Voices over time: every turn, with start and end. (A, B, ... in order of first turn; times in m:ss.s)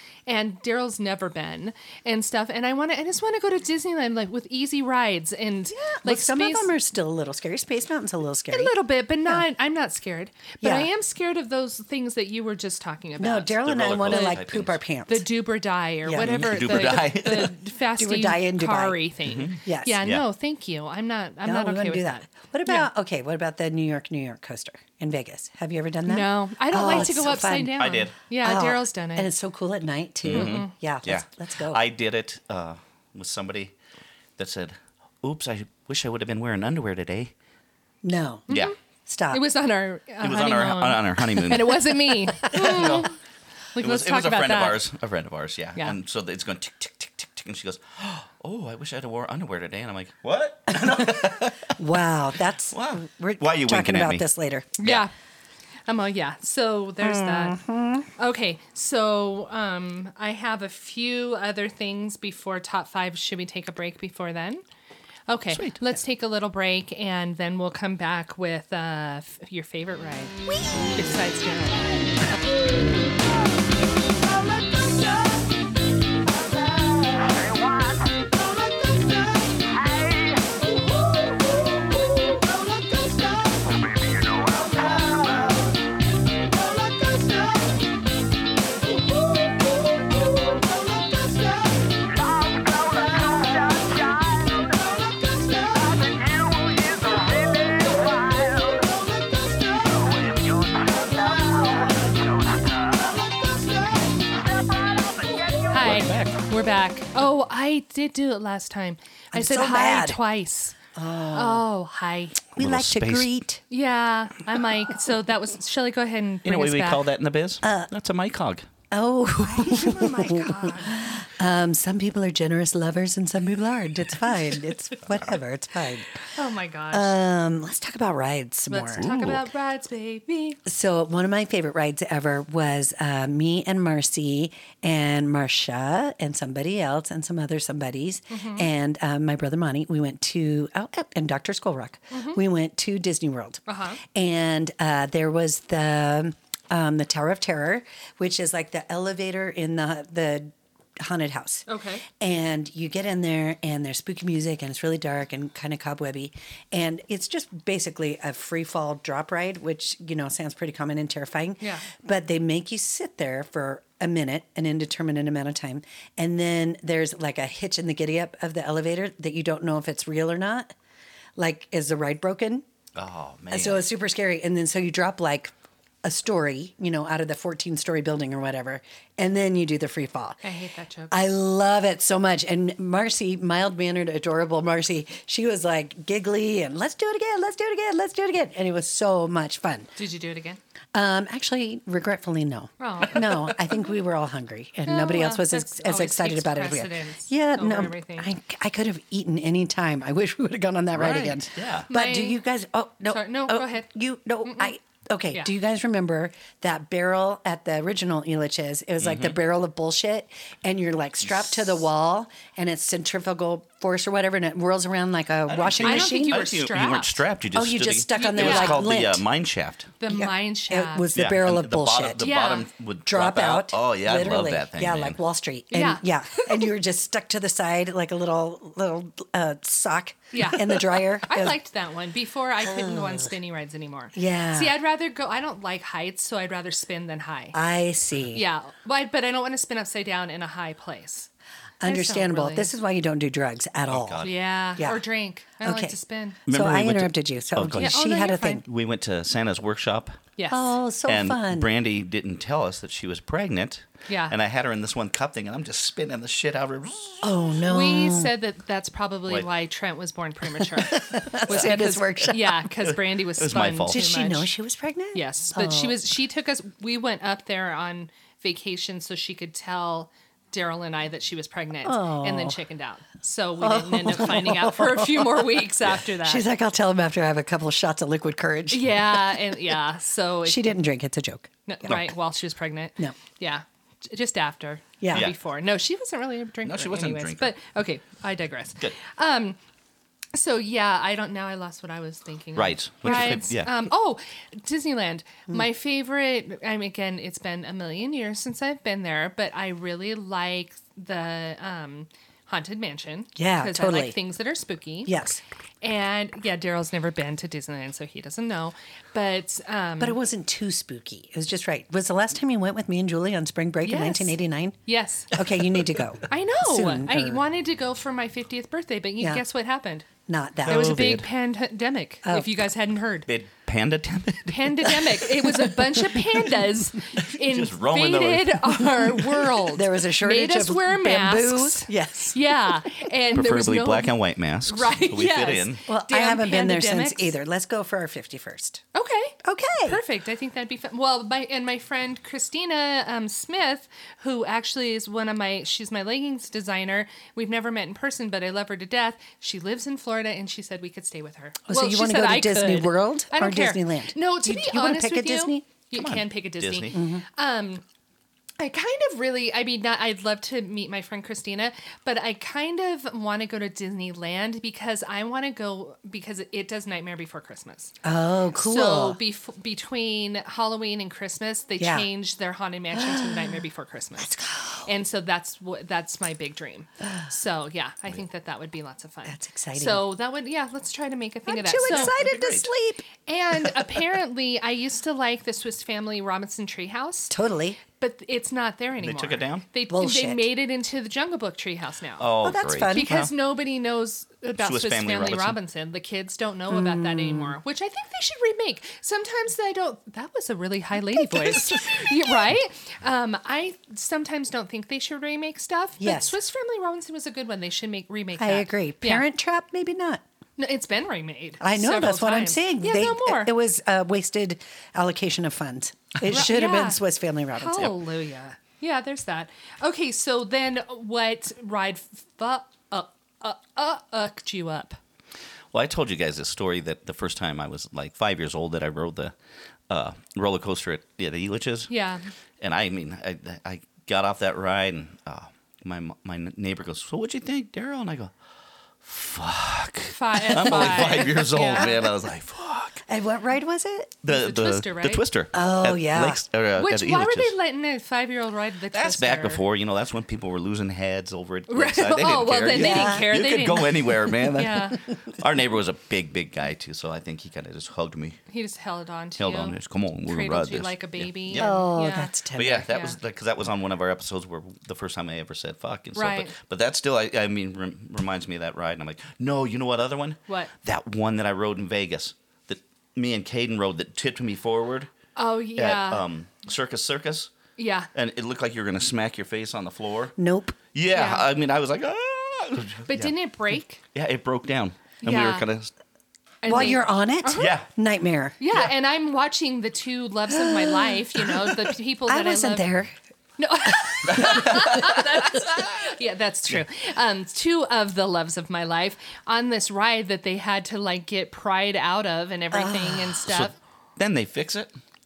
0:00.3-0:06.7 A
0:05.7-0:08.7 B
0:08.5-0:14.4 A
0:10.6-0:10.9 B
0:13.2-0:15.3 B
0:13.6-0:14.8 C
0:15.1-0:22.9 A
0:16.0-0:17.0 B
0:16.2-0:17.5 C
0:18.0-0:19.0 B
0:19.3-0:20.2 C
0:19.6-0:20.0 B
0:21.4-0:27.8 B
0:26.1-0:29.3 A
0:26.9-0:27.1 C
0:27.8-0:28.2 C
0:28.4-0:31.8 B
0:30.2-0:33.7 C
0:30.3-0:30.7 A
0:34.4-0:37.3 C
0:38.0-0:38.5 B
0:38.5-0:38.8 A
0:39.1-0:39.4 B
0:39.3-0:43.2 A
0:40.2-0:43.1 C
0:43.8-0:44.8 A
0:43.8-0:51.8 C
0:50.8-0:54.7 B
0:52.7-0:54.3 C
0:54.8-0:55.1 A
0:55.9-0:57.6 A
0:57.0-0:58.1 B
0:58.2-1:04.6 A
1:05.3-1:10.4 A
1:05.5-1:06.0 C
1:10.9-1:12.1 A
1:33.4-1:34.2 C
1:36.1-1:38.7 C
1:40.2-1:41.0 C
1:45.7-1:50.8 A
1:45.8-1:46.4 C
1:49.3-1:50.2 B
1:51.0-1:51.7 B
1:51.3-1:52.4 A
1:52.6-1:53.6 B
1:52.6-1:53.3 C
1:53.7-1:57.0 A
1:56.4-1:58.7 C
1:57.6-1:57.9 B
1:58.9-2:06.2 B
1:59.4-2:01.2 A
2:06.3-2:07.2 A
2:06.9-2:09.1 B
2:08.7-2:10.6 A
2:09.0-2:09.4 C
2:10.7-2:50.7 B
2:18.3-2:18.7 A
2:22.1-2:22.4 A
2:23.7-2:24.0 A
2:31.7-2:32.1 A
2:41.6-2:41.9 A
2:51.4-2:52.6 B
2:53.0-2:53.8 C
2:53.5-2:55.5 B
2:56.0-3:00.4 B
3:00.4-3:01.2 A
3:01.1-3:09.9 B
3:10.0-3:10.6 A
3:10.9-3:36.4 B
3:12.8-3:13.5 A
3:14.9-3:18.3 A
3:20.9-3:21.9 C
3:21.9-3:22.4 A
3:23.1-3:23.9 A
3:24.4-3:24.7 A
3:29.0-3:29.4 C
3:35.5-3:39.9 C
3:35.8-3:37.2 A
3:37.5-3:39.2 B
3:38.1-3:38.9 A
3:40.0-3:41.1 A
3:40.1-3:42.2 B
3:41.1-3:45.2 C
3:42.2-3:42.7 A
3:43.1-3:51.6 B
3:45.7-3:46.7 A
3:50.3-3:57.6 A
3:52.6-3:53.3 B
3:54.1-3:54.8 B
3:57.5-3:58.4 B
3:58.3-4:01.3 A
4:01.8-4:04.2 B
4:01.8-4:02.7 A
4:03.9-4:04.4 C
4:04.2-4:06.4 A
4:05.6-4:08.6 B
4:06.5-4:08.0 C
4:07.8-4:08.6 A
4:08.6-4:10.2 C
4:10.4-4:10.7 A
4:10.5-4:11.7 B
4:11.1-4:17.3 C
4:14.1-4:14.3 A
4:17.2-4:18.3 B
4:17.6-4:24.5 A
4:20.8-4:22.6 B
4:22.9-4:24.0 C
4:23.9-4:26.0 B
4:25.1-4:36.4 A
4:31.8-4:32.6 B
4:33.6-4:35.6 B
4:36.2-4:39.6 B
4:38.7-4:40.7 A
4:40.5-4:41.5 B
4:41.7-4:49.6 A
4:45.0-4:45.3 B
4:46.6-4:47.5 C
4:50.3-5:05.3 A
4:52.6-4:53.7 C
5:03.4-5:04.2 B
5:05.1-5:05.4 B
5:05.8-5:10.2 A
5:10.0-5:14.8 B
5:13.8-5:15.3 A
5:15.3-5:17.4 B
5:16.3-5:20.1 A
5:20.3-5:21.2 B
5:20.6-5:21.3 C
5:20.6-5:23.3 A
5:22.2-5:22.7 B
5:23.3-5:25.3 C
5:24.5-5:34.1 A
5:27.2-5:29.1 C
5:29.6-5:32.7 B
5:33.3-5:35.8 C
5:34.7-5:37.3 A
5:35.9-5:38.8 B
5:38.9-5:57.8 A
5:39.4-5:40.0 B
5:51.7-5:55.7 B
5:55.9-5:57.0 C
5:56.9-5:57.2 B
5:58.6-6:07.9 A
6:08.0-6:09.2 B
6:08.6-6:22.2 A
6:11.8-6:12.1 B
6:12.9-6:13.6 B
6:14.2-6:14.9 B
6:19.3-6:20.1 B
6:21.5-6:23.0 B
6:21.8-6:22.7 C
6:23.2-6:27.4 A
6:27.3-6:27.8 B
6:27.9-6:32.3 A
6:29.0-6:29.7 C
6:29.9-6:30.4 B
6:32.2-6:33.3 C
6:32.4-6:33.3 B
6:32.9-6:49.3 A
6:34.6-6:35.6 C
6:36.7-6:37.6 B
6:41.1-6:42.4 B
6:46.0-6:46.4 B
6:48.4-6:50.2 B
6:50.6-6:53.5 A
6:51.6-6:57.9 B
6:56.3-6:57.0 A
6:57.5-7:05.0 A
7:05.7-7:09.3 C
7:09.9-7:11.9 C
7:11.9-7:12.3 A
7:12.6-7:18.3 C
7:19.0-7:23.0 C
7:20.1-7:22.0 A
7:23.1-7:24.1 B
7:24.2-7:27.5 C
7:24.3-7:25.2 A
7:25.5-7:26.4 B
7:26.8-7:29.6 A
7:28.9-7:38.4 C
7:31.7-7:35.0 A
7:32.8-7:33.3 B
7:38.5-7:42.3 A
7:39.4-7:41.8 C
7:41.5-7:42.9 B
7:42.6-7:55.1 C
7:42.9-7:43.2 A
7:46.2-7:46.6 A
7:55.4-7:56.2 A
7:55.8-7:57.5 C
7:57.8-7:58.1 A
7:58.1-8:00.4 C
8:00.4-8:00.8 B
8:00.9-8:03.3 C
8:01.1-8:01.5 A
8:03.1-8:04.0 A
8:04.1-8:05.9 C
8:05.2-8:05.6 A
8:06.6-8:07.8 A
8:06.7-8:08.6 B
8:07.6-8:07.9 C
8:08.6-8:12.9 A
8:10.5-8:13.2 B
8:13.6-8:23.8 A
8:14.2-8:16.0 C
8:22.7-8:23.4 B
8:23.5-8:25.0 C